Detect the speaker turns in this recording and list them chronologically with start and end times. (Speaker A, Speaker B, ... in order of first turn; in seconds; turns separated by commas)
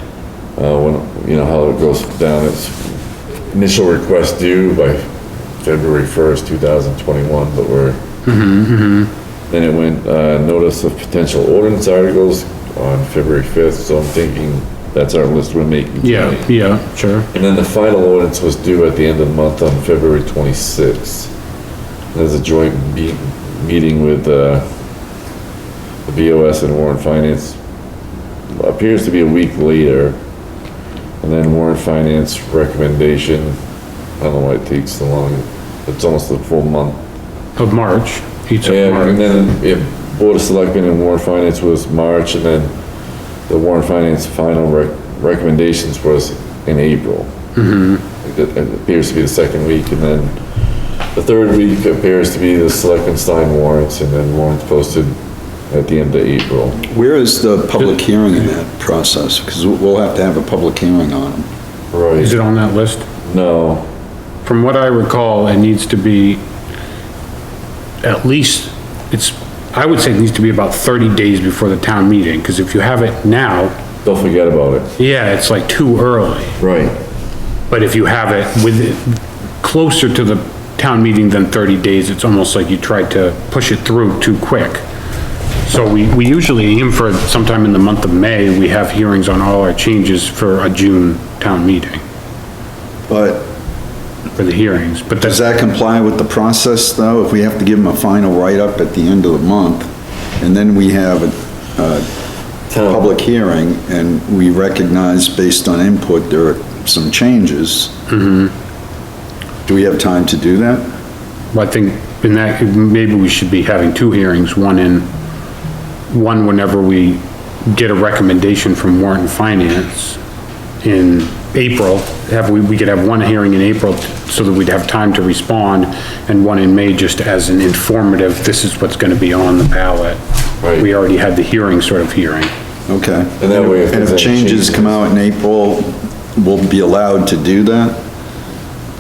Speaker A: 0.6-8.0, Speaker B: 8.3-9.1, Speaker A: 9.5-16.5, Speaker B: 16.0-17.3, Speaker A: 17.3-21.3, Speaker A: 22.1-24.6, Speaker A: 26.1-27.6, Speaker A: 28.5-30.2, Speaker A: 31.2-33.6, Speaker A: 34.2-37.0, Speaker B: 37.6-39.2, Speaker A: 38.6-42.7, Speaker A: 43.5-47.3, Speaker B: 47.6-48.0, Speaker A: 48.2-50.4, Speaker A: 51.1-55.1, Speaker A: 55.7-56.8, Speaker C: 56.9-61.5, Speaker A: 61.9-62.4, Speaker B: 62.2-63.1, Speaker A: 63.2-63.9, Speaker B: 64.4-66.4, Speaker B: 68.0-73.7, Speaker A: 74.0-74.9, Speaker B: 75.0-76.6, Speaker A: 76.6-77.0, Speaker B: 77.7-84.8, Speaker B: 85.7-92.0, Speaker C: 93.1-93.5, Speaker B: 94.4-95.4, Speaker C: 95.2-99.9, Speaker C: 100.4-102.1, Speaker A: 102.7-103.1, Speaker C: 102.9-107.9, Speaker B: 108.1-108.5, Speaker C: 109.7-110.8, Speaker B: 111.5-115.1, Speaker B: 116.1-120.2, Speaker B: 120.8-130.2, Speaker A: 130.6-130.9, Speaker B: 130.8-132.5, Speaker C: 132.9-138.0, Speaker A: 133.4-135.0